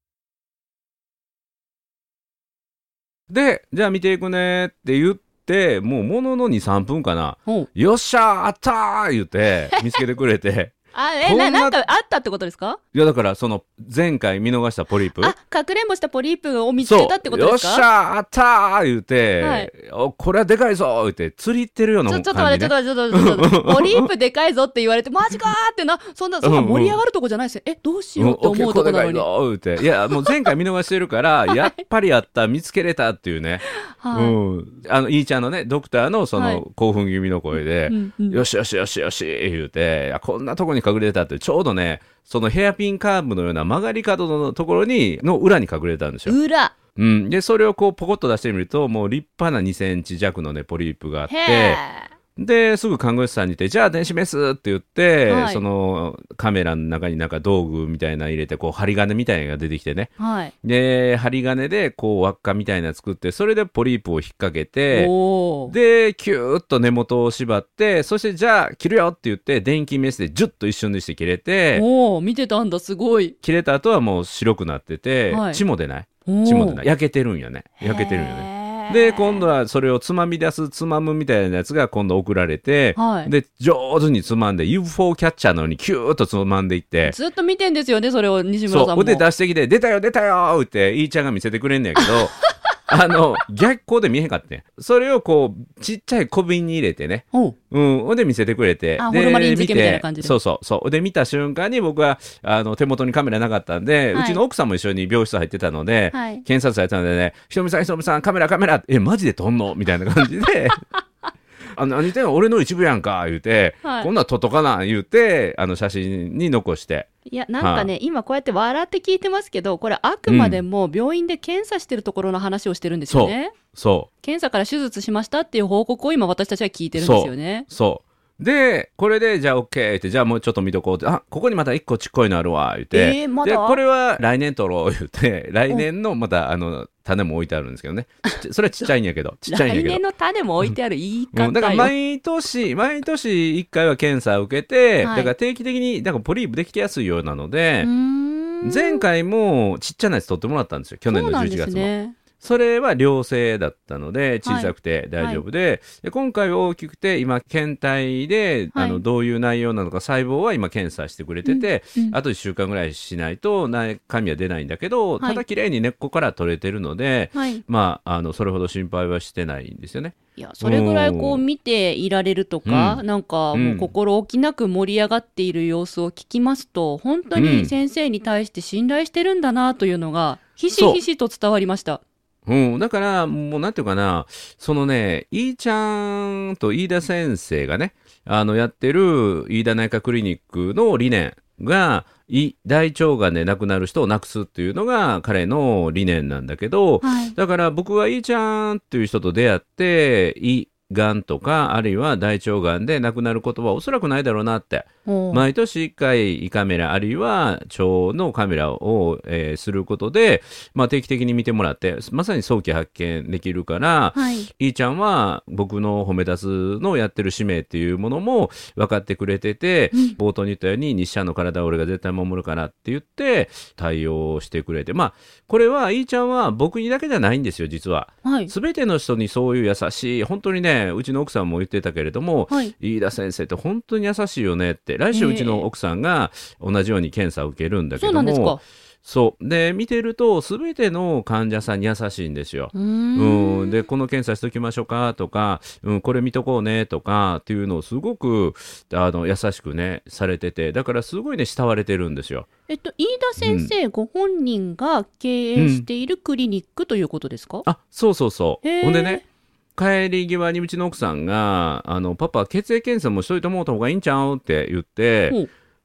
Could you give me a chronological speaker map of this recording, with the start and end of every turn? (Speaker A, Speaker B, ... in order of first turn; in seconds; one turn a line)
Speaker A: 3.3-11.8
Speaker B: 10.9-12.8
Speaker A: 12.9-15.3
Speaker B: 15.2-17.9
Speaker A: 16.8-24.1
Speaker B: 19.4-19.7
Speaker B: 22.1-29.2
Speaker A: 26.4-27.0
Speaker A: 28.2-46.4
Speaker B: 30.1-30.5
Speaker B: 31.5-31.8
Speaker B: 33.8-34.4
Speaker B: 36.3-36.6
Speaker B: 37.9-38.4
Speaker B: 46.3-46.7
Speaker A: 47.0-51.8
Speaker B: 51.3-52.1
Speaker A: 52.4-60.1
Speaker B: 55.3-55.6
Speaker B: 60.2-60.5
Speaker A: 60.6-65.1
Speaker B: 64.9-65.7
Speaker A: 65.7-71.8
Speaker B: 71.7-73.3
Speaker A: 73.4-87.2
Speaker B: 75.3-75.6
Speaker B: 76.2-76.8
Speaker B: 77.8-79.5
Speaker B: 83.0-83.3
Speaker B: 87.0-89.2
Speaker A: 88.7-110.8
Speaker B: 99.0-100.3
Speaker B: 104.1-104.4
Speaker B: 106.1-106.4
Speaker A: 111.7-117.1
Speaker B: 113.8-114.1
Speaker B: 117.2-123.5
Speaker A: 117.6-117.9
Speaker A: 120.3-120.6
Speaker A: 123.1-124.1
Speaker B: 124.2-127.7
Speaker A: 126.9-140.0
Speaker B: 132.9-133.8
Speaker B: 139.4-141.9
Speaker A: 141.3-147.9
Speaker B: 145.0-145.3
Speaker B: 147.8-149.0
Speaker A: 148.6-171.4
Speaker B: 151.1-152.2
Speaker B: 154.4-155.4
Speaker B: 158.7-159.0
Speaker B: 161.4-162.2
Speaker B: 167.3-167.6
Speaker B: 170.3-182.0
Speaker A: 172.7-173.0
Speaker A: 173.5-173.9
Speaker A: 177.3-177.7
Speaker A: 180.7-181.0
Speaker A: 182.4-252.5
Speaker B: 197.0-197.3
Speaker B: 205.1-205.4
Speaker B: 214.1-214.5
Speaker B: 219.9-220.2
Speaker B: 228.2-228.5
Speaker B: 235.1-235.7
Speaker B: 238.0-238.6
Speaker B: 242.7-243.8
Speaker B: 252.7-257.6
Speaker A: 253.4-253.7
Speaker A: 255.6-255.9
Speaker A: 257.6-259.2
Speaker B: 258.6-259.2
Speaker A: 259.8-265.4